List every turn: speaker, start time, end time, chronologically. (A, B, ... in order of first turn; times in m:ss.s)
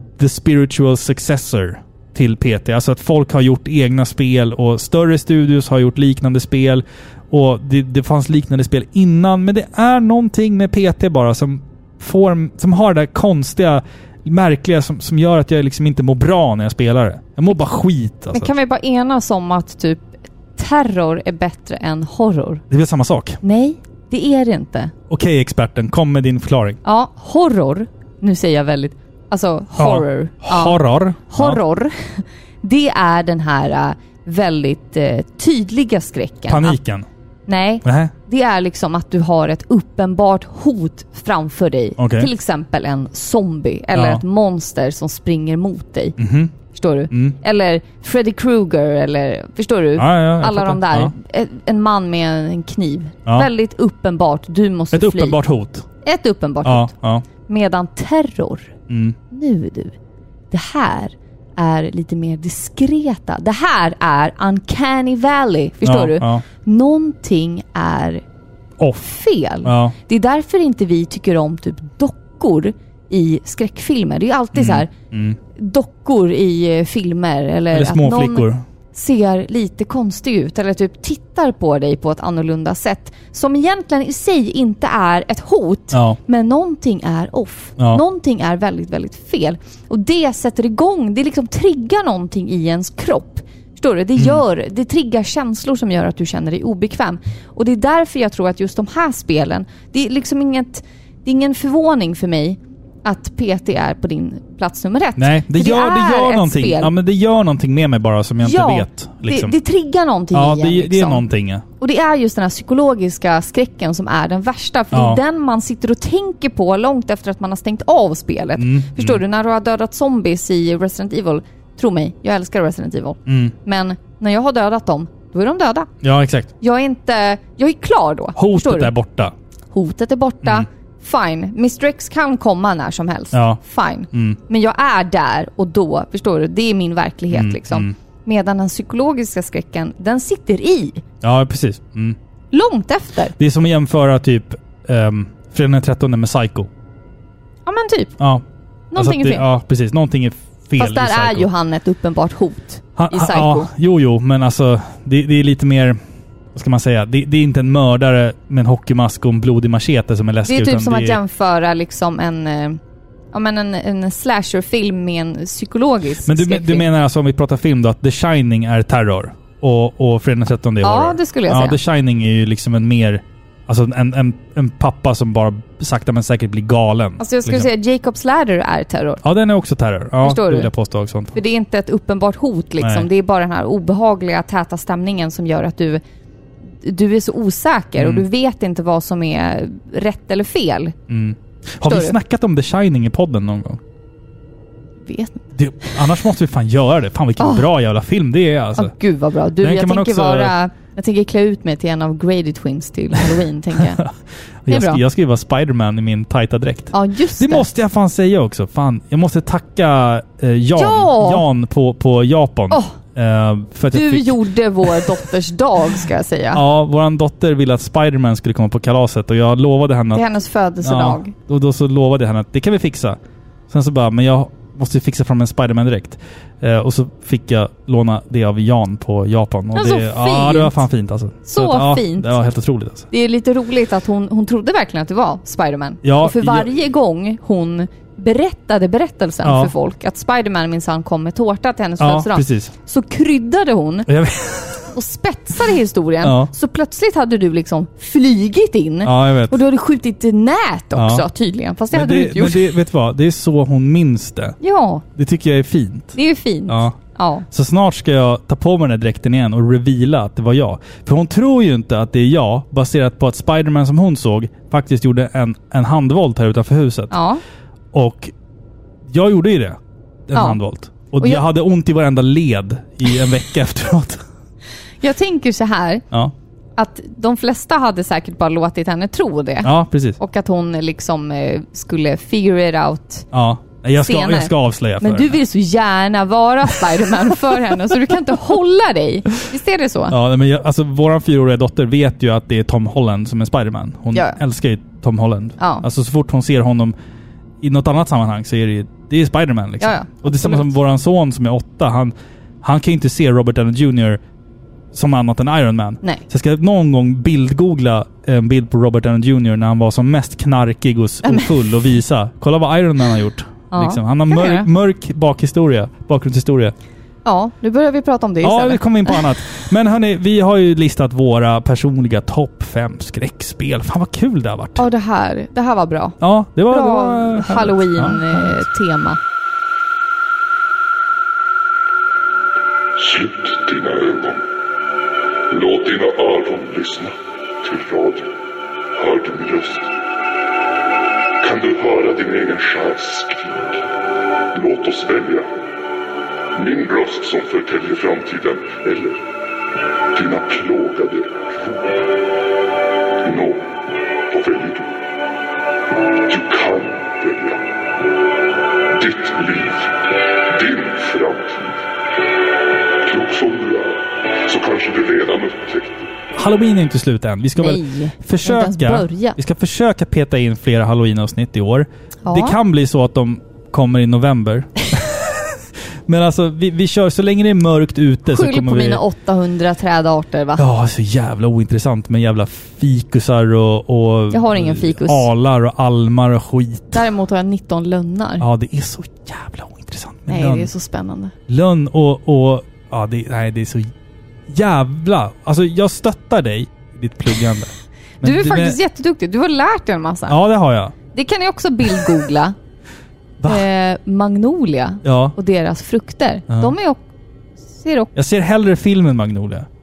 0:00.2-0:18.5 A
0:18.3-0:22.6 B
0:22.7-0:23.4 A
0:23.4-0:24.9 B
0:25.1-0:26.8 A
0:26.8-0:36.8 B
0:29.8-0:31.6 A
0:36.5-0:37.1 A
0:37.5-0:46.2 B
0:37.8-0:38.1 A
0:42.0-0:42.3 A
0:43.9-0:44.2 A
0:46.2-0:46.5 A
0:46.7-0:55.4 B
0:47.1-0:47.4 A
0:50.0-0:51.1 A
0:54.9-0:55.8 A
0:56.0-0:58.7 B
0:56.6-0:57.2 A
0:58.9-0:59.2 A
0:59.3-1:00.0 B
1:00.5-1:08.2 B
1:05.8-1:06.4 A
1:08.8-1:09.1 A
1:09.0-1:14.9 B
1:09.6-1:10.0 A
1:14.5-1:15.4 A
1:15.6-1:46.9 B
1:17.7-1:18.6 A
1:25.9-1:26.2 A
1:27.8-1:28.0 A
1:34.2-1:34.4 A
1:45.2-1:49.6 A
1:48.4-1:51.2 B
1:50.3-1:51.6 A
1:51.8-2:05.9 B
1:54.9-1:55.2 A
1:58.6-1:59.2 A
2:03.3-2:03.5 A
2:06.0-2:06.5 A
2:06.6-2:08.9 B
2:08.4-2:09.3 A
2:09.7-2:21.0 B
2:13.3-2:13.6 A
2:14.1-2:14.4 A
2:17.3-2:17.9 A
2:21.2-2:22.2 A
2:22.5-2:23.4 B
2:23.4-2:26.7 A
2:27.7-2:28.1 B
2:28.2-2:28.4 A
2:28.9-2:29.5 B
2:29.0-2:31.5 A
2:30.8-2:33.7 B
2:33.0-2:36.0 A
2:36.5-2:41.2 A
2:40.4-2:42.8 B
2:43.3-2:46.8 B
2:46.3-2:57.7 A
2:50.8-2:51.8 B
2:57.2-2:59.2 B
2:59.2-3:01.4 A
3:00.2-3:00.7 B
3:01.3-3:06.0 B
3:02.8-3:03.1 A
3:06.8-3:11.0 B
3:08.0-3:08.2 A
3:11.1-3:13.8 A
3:11.8-3:12.2 B
3:15.0-3:15.5 B
3:15.5-3:18.9 A
3:17.4-3:17.7 B
3:18.8-3:24.0 B
3:19.6-3:20.5 A
3:23.8-3:24.1 A
3:24.6-3:35.2 A
3:24.7-3:25.0 B
3:26.9-3:27.7 B
3:30.8-3:31.4 B
3:32.7-3:33.0 B
3:33.9-3:36.6 B
3:36.5-3:40.2 A
3:40.1-3:41.3 B
3:40.8-3:43.2 A
3:43.7-3:53.1 A
3:49.7-3:50.8 B
3:51.5-3:52.4 B
3:53.1-4:04.1 B
3:56.0-3:56.7 A
3:59.4-3:59.7 A
4:02.0-4:02.7 A
4:04.1-4:04.9 A
4:04.9-4:12.7 B
4:06.2-4:06.5 A
4:09.0-4:09.6 A
4:11.0-4:11.2 A
4:11.9-4:14.6 A
4:14.6-4:15.0 B
4:15.2-4:16.2 A
4:16.1-4:17.5 B
4:16.7-4:17.0 A
4:17.5-4:27.2 A
4:27.1-4:27.4 B
4:27.9-4:28.3 A
4:29.1-4:34.2 A
4:30.3-4:30.6 B
4:35.0-4:36.0 B
4:36.8-4:43.3 B
4:39.6-4:40.2 A
4:43.3-4:45.4 A
4:44.0-4:50.2 B
4:50.1-4:57.0 A
4:54.1-4:54.4 B
4:55.6-4:55.9 B
4:57.6-5:04.2 A
4:59.8-5:00.8 B
5:04.9-5:16.7 A
5:11.2-5:11.6 B
5:13.7-5:14.7 B
5:17.2-5:19.3 B
5:18.4-5:24.8 A
5:24.8-5:29.2 B
5:26.2-5:28.6 A
5:33.0-5:34.4 C
5:35.5-5:38.3 C
5:39.0-5:39.9 C
5:41.4-5:43.8 C
5:44.5-5:45.5 C
5:46.6-5:49.2 C
5:50.1-5:52.0 C
5:53.2-5:53.7 C
5:54.3-5:54.9 C
5:56.3-5:57.6 C
5:58.9-6:01.8 C
6:03.0-6:06.1 C
6:06.4-6:15.6 A
6:07.6-6:09.4 B
6:12.2-6:12.6 B
6:16.1-6:19.0 A
6:18.3-6:20.7 B
6:20.6-6:27.0 A
6:24.3-6:25.3 B
6:26.9-6:28.4 B
6:28.4-6:30.7 A
6:30.3-6:31.3 B
6:31.5-6:33.9 A
6:34.5-6:38.8 A
6:38.2-6:40.4 B
6:40.3-6:40.9 A
6:41.1-6:42.6 B
6:43.4-6:43.7 A
6:43.4-6:47.0 B
6:45.0-6:45.4 A
6:46.5-6:46.7 A
6:47.7-6:48.1 B
6:48.2-6:49.7 A